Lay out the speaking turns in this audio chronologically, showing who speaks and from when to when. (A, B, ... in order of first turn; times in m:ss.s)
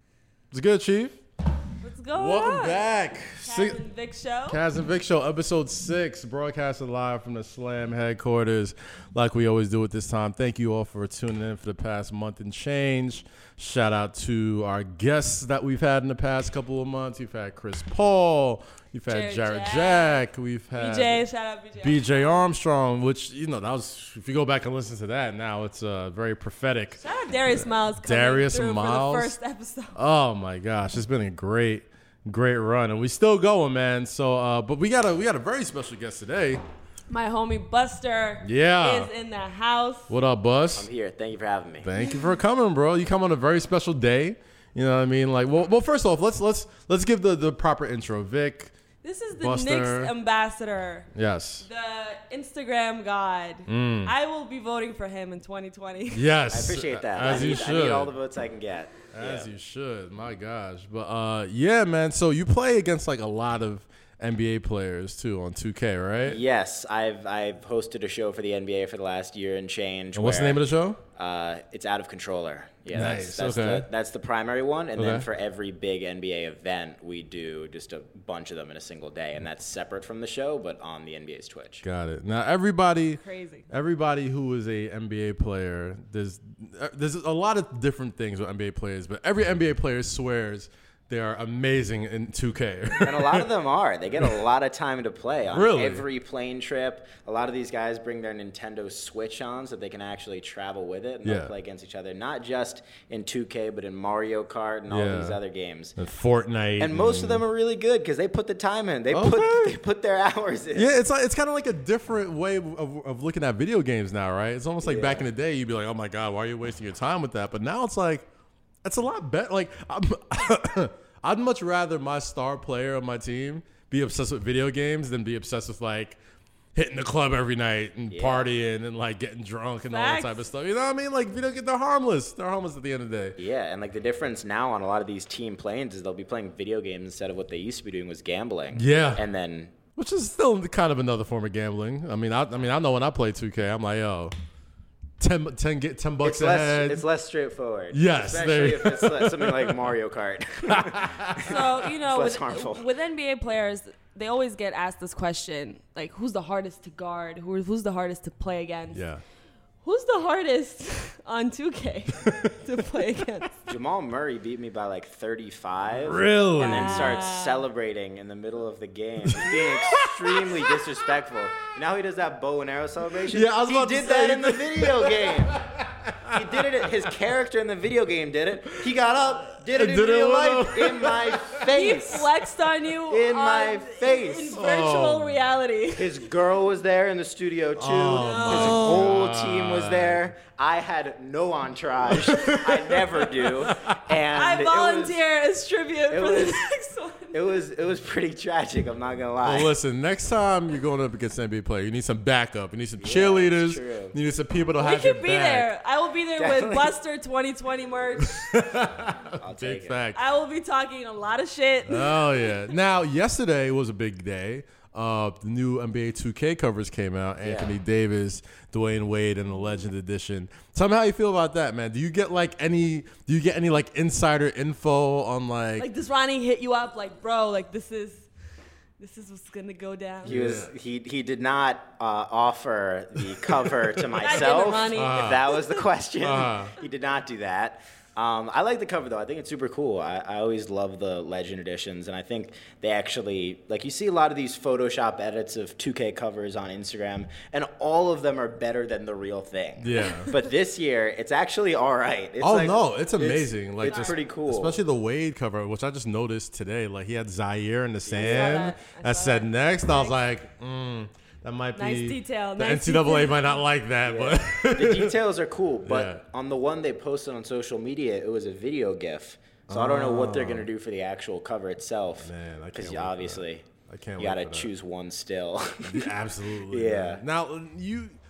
0:00.5-0:01.2 A
0:01.8-0:02.9 B
0:02.1-0:03.8 A
0:03.4-0:04.6 B
0:04.5-0:21.2 A
0:19.1-0:20.2 B
0:20.8-0:22.5 B
0:21.8-0:27.0 A
0:27.0-0:30.0 B
0:27.5-0:29.4 A
0:29.9-0:36.6 A
0:37.1-0:40.1 B
0:38.4-0:39.1 A
0:40.1-0:40.9 A
0:40.7-0:41.9 C
0:41.8-0:48.7 A
0:49.0-0:51.1 B
0:49.4-0:50.1 A
0:51.1-0:51.7 A
0:51.6-0:56.3 B
0:53.7-0:54.1 A
0:56.1-0:58.1 A
0:56.5-0:59.5 C
0:59.1-1:06.4 A
1:06.2-1:10.6 C
1:10.1-1:11.0 A
1:11.2-1:21.8 C
1:12.9-1:13.8 A
1:15.0-1:15.3 A
1:21.8-1:33.5 A
1:23.2-1:23.7 B
1:33.0-1:46.0 C
1:35.5-1:36.0 A
1:41.2-1:41.5 A
1:44.9-1:45.4 A
1:46.0-1:47.4 A
1:46.8-1:50.9 C
1:49.1-1:49.8 A
1:50.7-1:58.2 A
1:54.8-1:55.2 C
1:58.8-2:06.2 A
2:06.7-2:13.4 A
2:08.1-2:08.4 C
2:09.9-2:10.5 B
2:13.4-2:19.7 C
2:18.7-2:19.2 A
2:20.0-2:24.3 A
2:25.2-2:27.0 A
2:26.2-2:32.9 C
2:27.9-2:29.9 A
2:30.6-2:31.6 A
2:31.4-2:39.0 B
2:38.9-2:39.2 A
2:39.8-2:43.6 B
2:42.2-2:42.6 A
2:43.7-2:55.6 C
2:46.0-2:47.2 A
2:46.7-2:47.6 B
2:49.2-2:50.8 A
2:53.3-2:57.1 A
2:56.3-3:02.3 C
2:59.4-3:01.7 A
3:01.7-3:06.2 B
3:03.1-3:04.6 C
3:04.5-3:05.4 A
3:05.9-3:15.2 C
3:07.8-3:10.3 A
3:08.2-3:09.1 B
3:12.1-3:14.0 A
3:14.3-3:17.6 B
3:16.1-3:16.6 C
3:17.3-3:19.7 C
3:19.4-3:25.7 A
3:23.0-3:24.1 C
3:24.8-3:28.6 B
3:26.4-3:26.9 C
3:28.2-3:30.2 A
3:29.4-3:30.0 C
3:30.1-3:32.7 B
3:31.8-3:45.9 A
3:37.4-3:37.7 C
3:45.8-3:48.3 B
3:49.0-3:50.3 B
3:50.2-3:50.7 A
3:50.2-4:14.8 C
3:54.2-3:55.8 B
3:54.9-3:55.6 A
3:56.2-3:56.7 A
4:09.8-4:10.3 A
4:10.1-4:10.5 B
4:12.4-4:25.1 A
4:13.8-4:14.2 B
4:18.0-4:18.7 C
4:18.2-4:20.2 B
4:21.7-4:23.6 B
4:24.0-4:33.6 C
4:25.8-4:26.2 A
4:29.7-4:30.7 A
4:32.2-4:34.7 A
4:34.2-4:36.1 C
4:35.8-4:38.1 A
4:36.7-4:37.2 C